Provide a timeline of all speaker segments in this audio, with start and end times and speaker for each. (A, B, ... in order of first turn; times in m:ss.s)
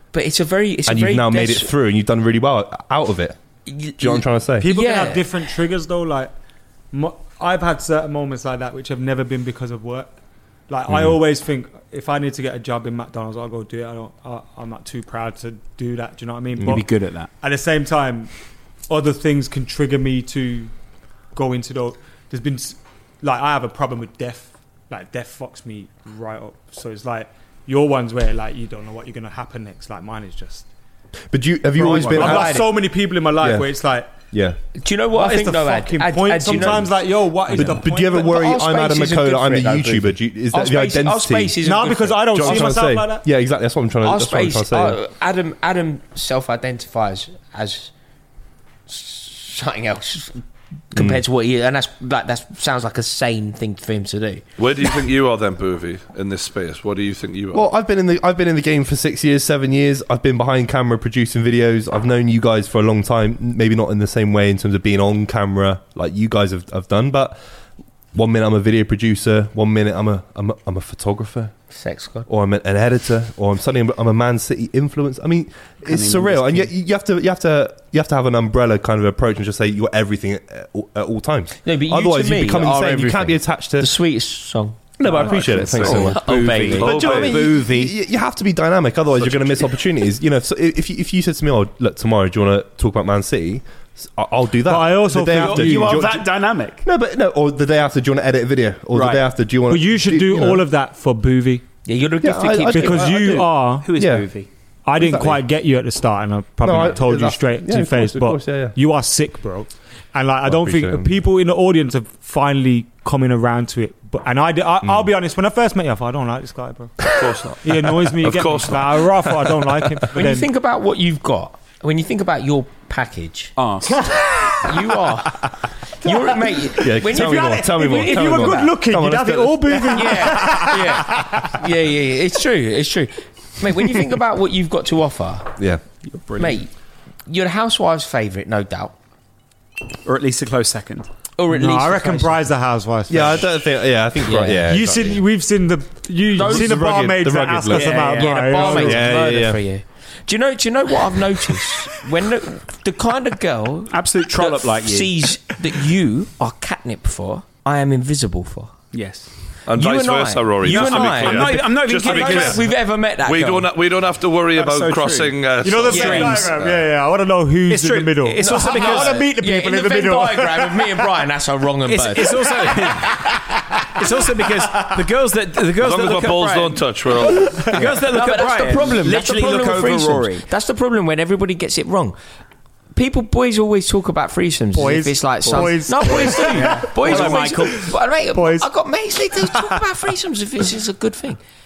0:00.1-0:01.7 A
0:00.9-0:03.4 B
0:03.7-0:05.3 A
0:04.0-0:04.7 B
0:04.6-0:06.3 C
0:06.9-0:10.1 C
0:10.7-0:18.3 C
0:10.9-0:11.2 B
0:16.6-0:17.3 D
0:18.9-0:20.7 C
0:21.3-0:30.7 C
0:31.3-0:32.8 B
0:31.8-0:34.2 C
0:31.9-0:32.7 A
0:33.4-0:33.7 B
0:34.3-0:34.6 B
0:34.8-0:36.9 A
0:35.1-0:38.3 C
0:37.5-0:41.6 B
0:37.6-0:42.8 A
0:41.6-0:43.2 C
0:42.3-0:45.0 B
0:44.0-0:47.9 A
0:48.9-0:54.4 A
0:54.6-0:57.7 E
0:57.5-1:07.4 B
1:08.1-1:11.5 B
1:11.7-1:12.3 A
1:12.3-1:24.0 B
1:15.8-1:16.7 D
1:21.6-1:24.9 A
1:25.0-1:40.6 B
1:25.0-1:28.0 D
1:25.2-1:26.1 E
1:25.9-1:27.0 A
1:26.8-1:27.6 E
1:29.2-1:29.7 E
1:34.6-1:36.1 C
1:35.3-1:36.8 D
1:38.9-1:39.2 D
1:39.7-1:41.6 C
1:41.9-1:43.4 A
1:42.2-1:44.3 B
1:42.7-1:44.0 C
1:43.8-1:44.5 D
1:44.9-1:57.1 C
1:45.0-1:45.4 B
1:46.6-1:48.8 B
1:50.4-1:51.2 B
1:57.1-1:59.2 E
1:57.6-2:00.5 C
2:00.1-2:03.5 A
2:03.6-2:04.2 D
2:04.5-2:08.7 A
2:06.8-2:10.0 B
2:07.1-2:11.6 C
2:09.9-2:15.5 A
2:16.0-2:16.6 D
2:16.4-2:16.7 A
2:17.3-2:18.9 A
2:20.0-2:21.1 D
2:21.4-2:22.4 A
2:21.5-2:23.5 C
2:23.1-2:25.2 B
2:24.2-2:24.6 A
2:24.6-2:29.1 C
2:26.3-2:26.8 A
2:26.4-2:29.6 B
2:27.7-2:28.8 D
2:28.0-2:38.7 A
2:33.9-2:35.2 D
2:38.9-2:39.3 D
2:39.7-2:42.6 E
2:39.8-2:43.7 A
2:40.6-2:42.6 D
2:43.2-2:46.8 E
2:44.5-2:46.6 D
2:45.6-2:51.0 C
2:46.0-2:46.2 A
2:47.7-2:49.3 D
2:48.4-2:53.6 A
2:51.9-3:00.5 D
2:55.8-2:57.7 E
2:57.5-2:58.1 C
2:58.0-3:02.2 A
3:03.0-3:11.4 A
3:04.8-3:07.8 C
3:05.5-3:07.9 D
3:08.3-3:08.7 C
3:09.4-3:09.8 C